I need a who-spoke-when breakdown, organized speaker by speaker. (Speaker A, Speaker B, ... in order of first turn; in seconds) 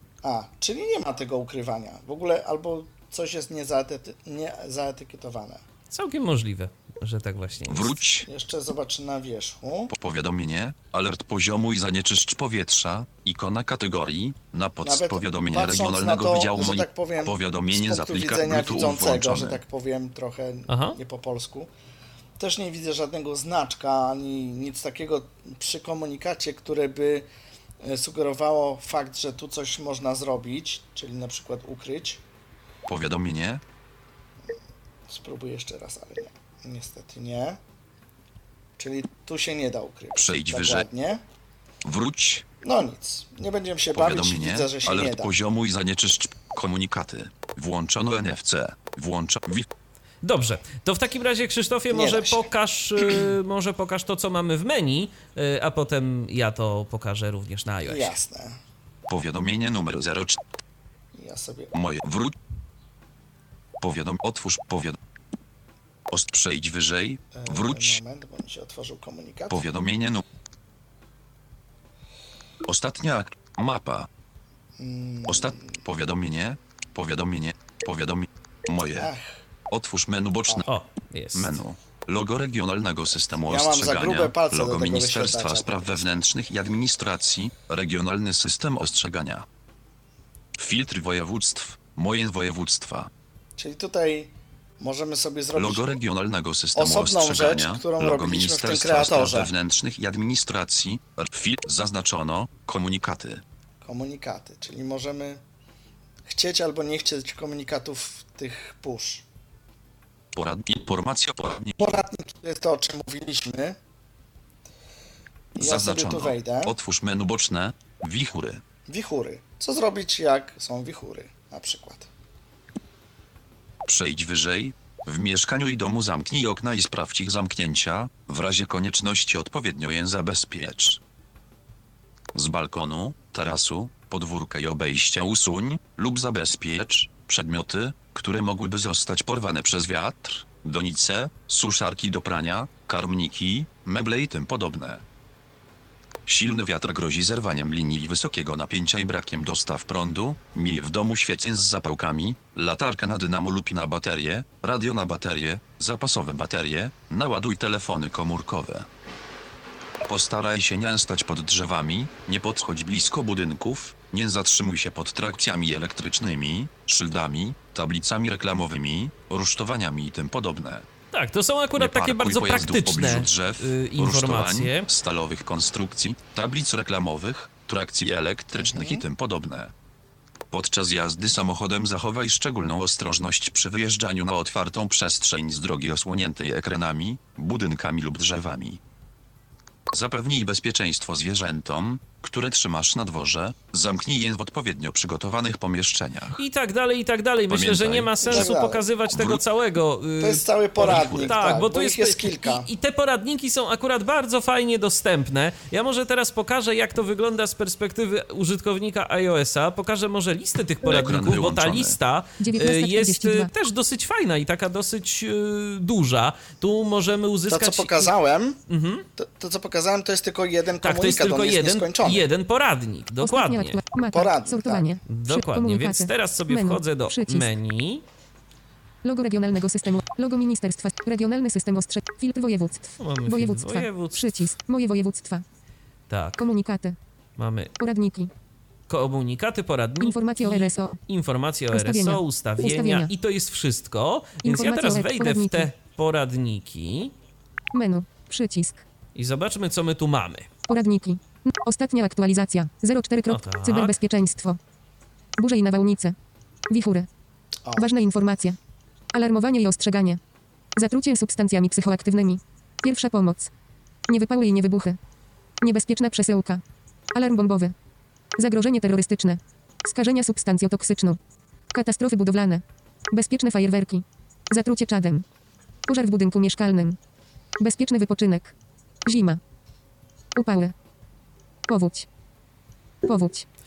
Speaker A: 0.2-5.6, 8.2-9.9, 14.8-21.7, 22.4-27.3, 27.8-32.2, 35.1-37.6, 38.8-41.2, 42.6-45.3, 51.9-52.5, 57.9-58.6, 61.1-61.7, 67.3-69.7, 74.8-75.8, 78.9-79.4, 83.5-86.0, 93.6-95.9, 96.8-99.5, 103.8-105.4, 106.3-109.2, 111.8-113.8, 115.6-116.8, 118.9-122.1, 178.6-179.0, 198.2-198.8, 200.2-202.7, 217.5-218.6, 219.2-222.3, 224.1-224.9, 257.6-257.9
Speaker B: 5.9-8.0, 20.7-21.0, 50.2-58.1, 80.7-81.6, 171.1-174.9, 196.4-218.1, 218.7-219.1, 220.8-223.8, 225.1-228.0, 233.0-234.4, 236.1-236.4, 237.4-237.7, 238.9-247.1, 249.2-250.5, 253.3-253.9
Speaker C: 7.7-8.3, 9.9-19.6, 32.9-33.6, 40.2-40.9, 41.8-42.5, 43.9-49.7, 59.1-60.4, 61.7-62.3, 63.8-65.0, 66.1-68.0, 69.5-70.2, 72.7-74.1, 75.3-79.1, 79.7-80.7, 81.3-89.5, 90.6-93.1, 95.5-103.4, 110.3-112.0, 115.6-118.6, 123.8-131.0, 132.3-145.0, 146.3-158.9, 160.0-170.9, 171.8-179.7, 180.5-188.8, 189.9-196.4, 197.5-198.5, 199.1-199.4, 200.8-201.3, 210.8-212.0
Speaker D: 212.4-213.5, 223.2-227.5, 229.0-235.4, 236.4-237.0, 237.8-238.3, 240.0-241.0, 241.7-243.1, 244.4-245.7, 247.7-248.8, 250.7-254.6, 255.4-256.2, 256.7-257.1, 257.8-258.6, 259.1-260.2, 260.8-263.5, 264.1-265.0, 265.6-266.6, 267.1-267.7, 268.4-271.2, 271.7-275.2, 275.9-277.0, 277.6-278.5, 279.1-279.4, 280.4-280.7, 281.7-282.1, 283.1-283.5